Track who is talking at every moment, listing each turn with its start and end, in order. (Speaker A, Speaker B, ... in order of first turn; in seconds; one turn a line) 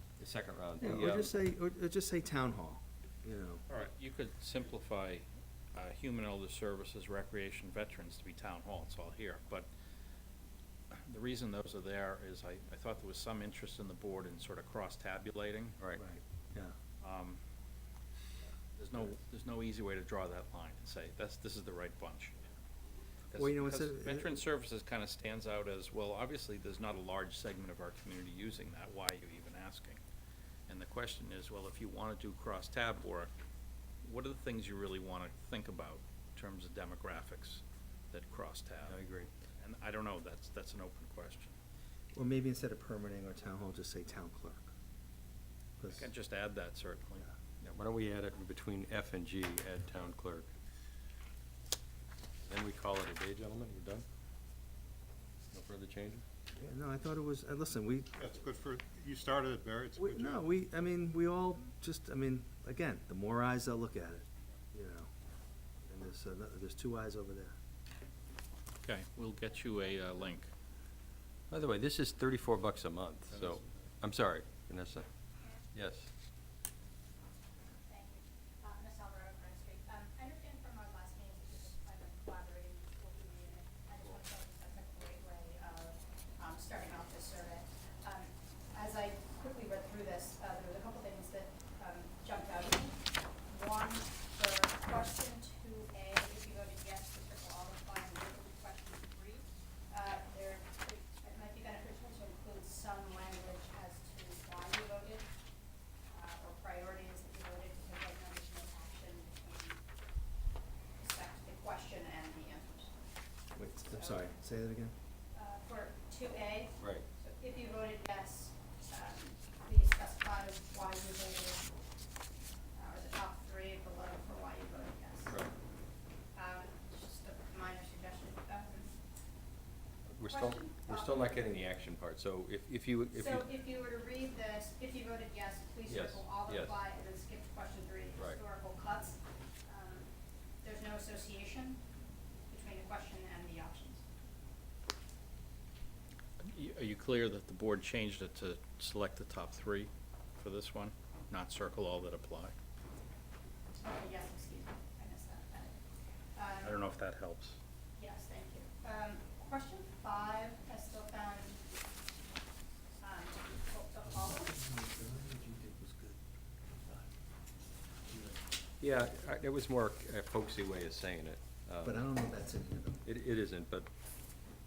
Speaker A: 0.2-1.3
Speaker B: 0.8-3.6
Speaker C: 3.7-9.7
Speaker C: 10.9-15.8
Speaker B: 15.9-16.8
Speaker C: 17.0-17.4
Speaker C: 18.7-22.5
Speaker C: 23.3-30.0
Speaker B: 23.4-24.4
Speaker C: 30.7-33.3
Speaker C: 34.0-39.0
Speaker A: 38.8-39.3
Speaker C: 39.6-41.5
Speaker B: 42.1-44.7
Speaker B: 45.8-46.1
Speaker C: 45.9-47.2
Speaker A: 47.6-50.5
Speaker A: 52.5-54.0
Speaker A: 55.5-56.2
Speaker B: 56.6-58.3
Speaker D: 58.2-60.5
Speaker B: 60.0-65.1
Speaker B: 65.9-67.5
Speaker C: 68.8-70.5
Speaker E: 69.6-70.3
Speaker A: 71.5-75.1
Speaker A: 75.7-76.1
Speaker E: 77.9-105.3
Speaker E: 106.1-109.8
Speaker E: 111.0-112.9
Speaker B: 113.5-114.9
Speaker E: 113.9-114.3
Speaker E: 115.3-121.8
Speaker A: 116.8-117.1
Speaker E: 122.8-125.4
Speaker A: 125.3-125.5
Speaker E: 126.3-128.9
Speaker A: 130.1-133.5
Speaker E: 130.3-131.3
Speaker E: 133.1-140.1
Speaker A: 135.9-136.8
Speaker E: 140.6-141.8
Speaker E: 142.5-144.0
Speaker C: 146.4-152.5
Speaker E: 153.8-155.8
Speaker E: 156.3-156.8
Speaker C: 156.6-157.6
Speaker E: 158.0-161.6
Speaker E: 163.0-164.5
Speaker B: 164.1-166.2
Speaker B: 166.7-167.1
Speaker B: 168.1-168.4
Speaker A: 168.8-172.1
Speaker B: 171.8-173.0
Speaker A: 173.1-173.9